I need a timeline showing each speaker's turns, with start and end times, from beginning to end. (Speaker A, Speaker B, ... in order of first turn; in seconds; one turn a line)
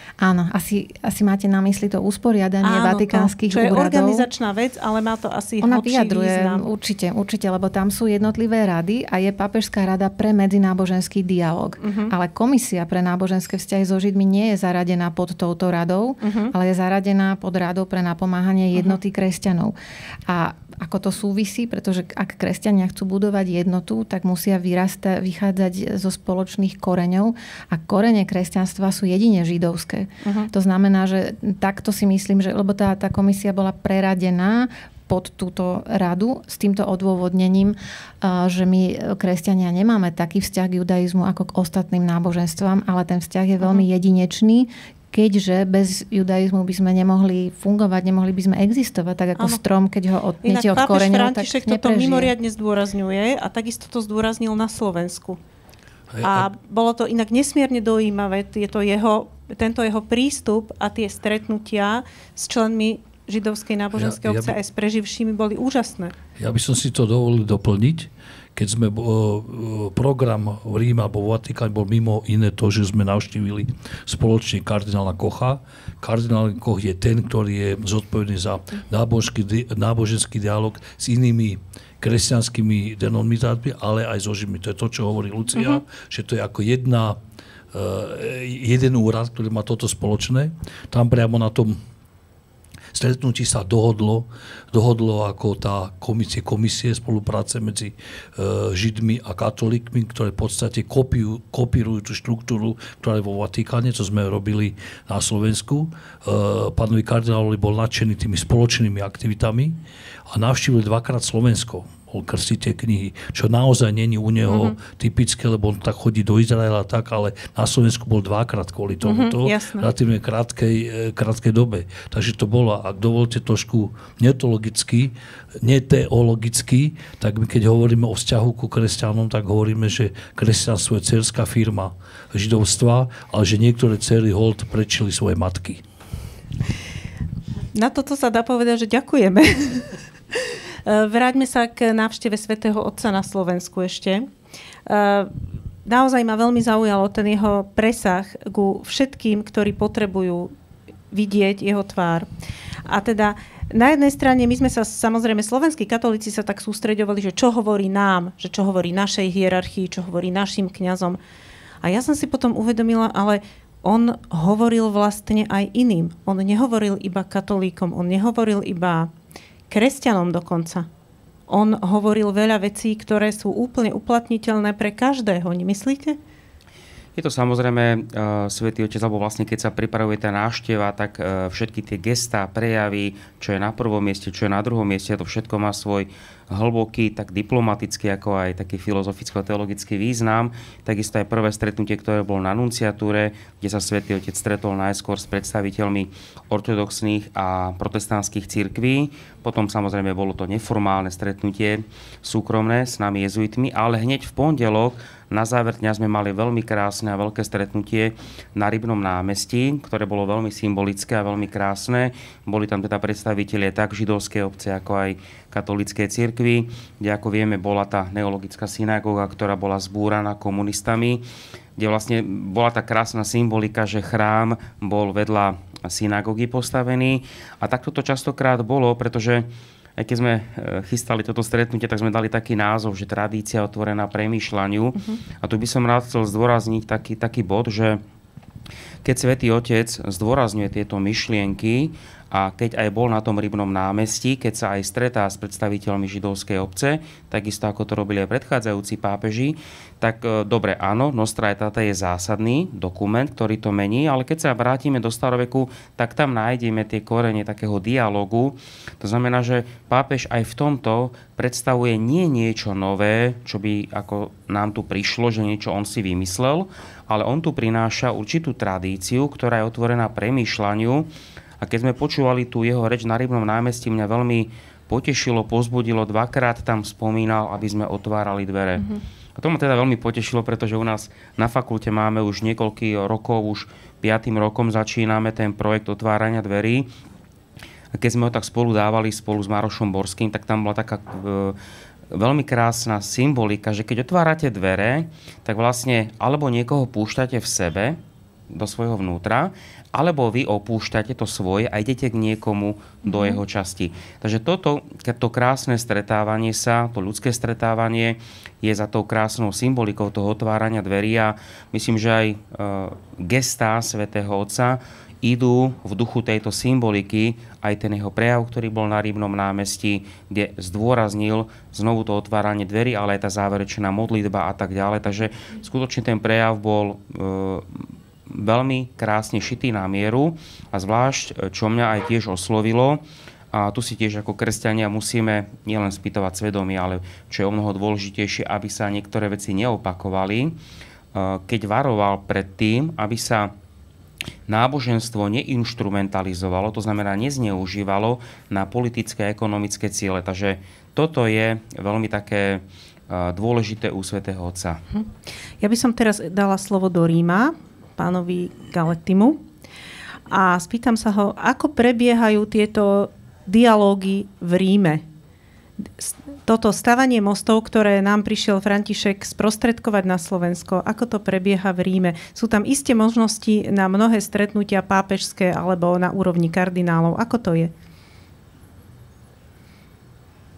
Speaker A: 0.2-4.3
Speaker B: 2.6-6.7
Speaker A: 5.6-19.7
Speaker B: 11.8-12.1
Speaker B: 16.2-16.5
Speaker A: 20.3-52.3
Speaker B: 30.2-30.5
Speaker B: 49.4-49.6
Speaker B: 50.4-55.4
Speaker C: 56.1-56.5
Speaker B: 56.2-66.2
Speaker C: 63.9-64.5
Speaker C: 66.4-87.2
Speaker B: 85.5-85.8
Speaker C: 87.7-91.8
Speaker C: 92.9-109.8
Speaker C: 110.3-135.8
Speaker B: 114.5-114.8
Speaker B: 119.0-119.9
Speaker B: 137.7-144.3
Speaker B: 144.9-150.5
Speaker B: 151.1-152.3
Speaker B: 152.8-161.2
Speaker B: 161.8-169.1
Speaker B: 169.7-170.9
Speaker B: 171.5-176.2
Speaker D: 177.2-221.2
Speaker D: 221.8-238.0
Speaker D: 239.0-271.1
Speaker D: 271.6-286.9
Speaker D: 287.9-291.6
Speaker D: 292.1-298.0
Speaker D: 298.5-333.0
Speaker B: 303.1-303.4
Speaker D: 333.5-340.6
Speaker D: 341.1-343.5
Speaker D: 344.5-354.8
Speaker B: 355.6-359.4
Speaker B: 360.3-365.0
Speaker B: 365.8-377.7